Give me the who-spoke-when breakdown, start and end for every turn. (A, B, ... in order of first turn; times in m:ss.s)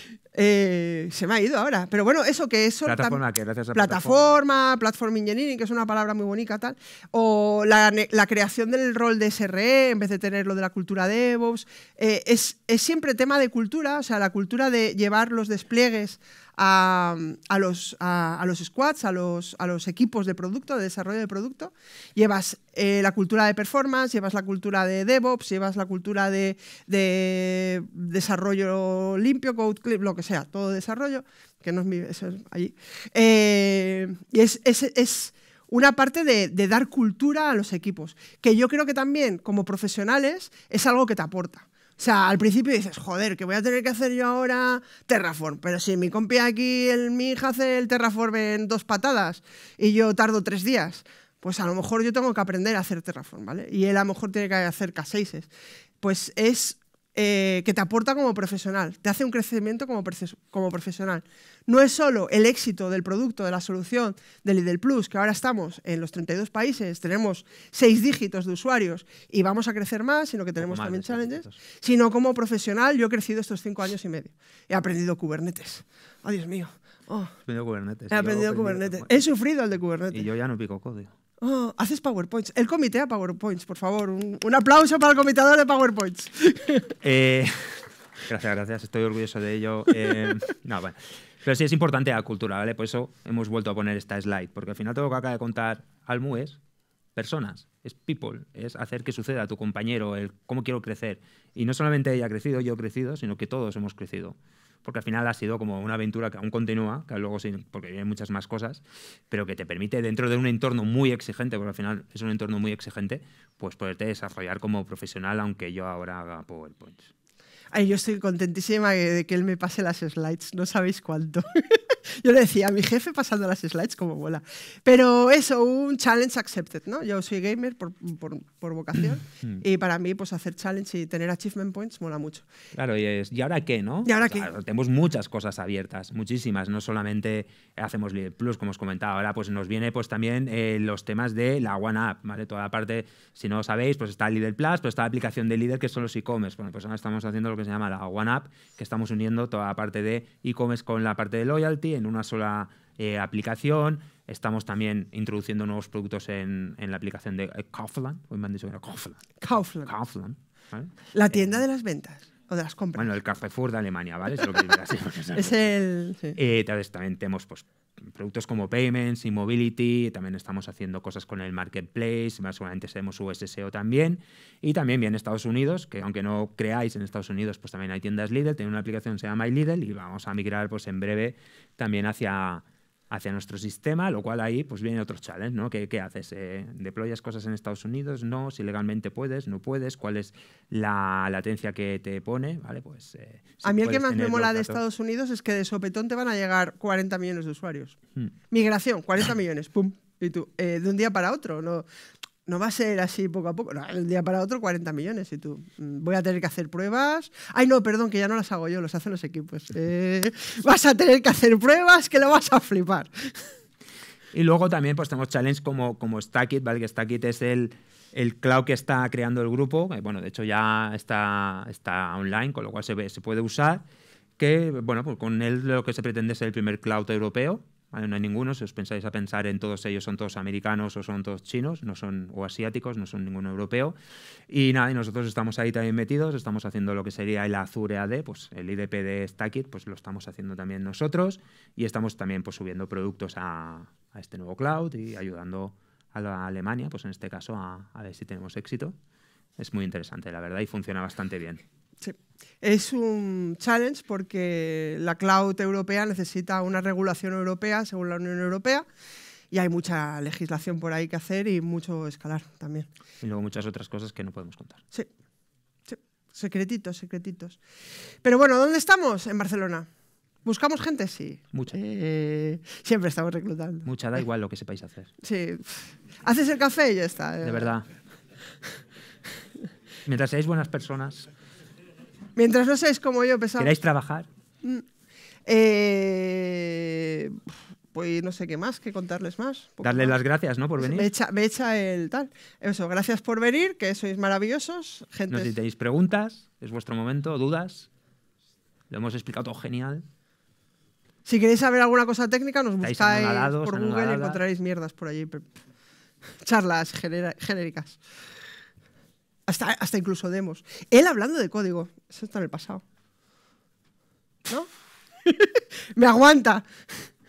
0:00.3-0:03.2 A
0:02.8-0:04.3 B
0:03.7-0:55.5 A
0:56.0-1:17.3 A
1:10.6-1:11.6 B
1:17.5-1:19.2 B
1:18.1-1:20.2 A
1:20.1-1:21.1 B
1:21.4-1:26.9 A
1:27.0-1:36.6 B
1:37.1-1:57.1 B
1:57.7-2:12.4 A
2:12.7-2:41.6 B
2:14.0-2:14.5 A
2:39.4-2:39.9 A
2:41.1-2:43.1 A
2:43.0-2:45.7 B
2:45.3-2:46.4 A
2:46.4-3:14.8 B
3:13.6-3:18.0 A
3:18.5-3:21.8 A
3:22.4-3:33.4 A
3:34.3-3:43.8 B
3:44.4-3:54.0 B
3:54.5-4:08.9 B
4:09.6-4:11.6 B
4:12.0-4:18.8 A
4:19.5-4:22.9 A
4:23.2-4:24.8 B
4:25.9-4:27.6 A
4:28.2-4:29.9 A
4:30.4-4:33.9 A
4:33.8-4:35.1 B
4:35.2-4:37.7 A
4:37.4-4:37.8 B
4:40.0-4:41.3 B
4:42.4-4:43.7 A
4:43.6-4:44.3 B
4:45.4-4:50.2 A
4:49.8-4:51.1 B
4:50.8-4:55.5 A
4:55.3-4:57.9 B
4:58.9-5:00.0 B
5:01.2-5:05.5 A
5:02.8-5:04.4 B
5:06.4-5:08.0 A
5:09.5-5:12.8 A
5:15.2-5:17.1 A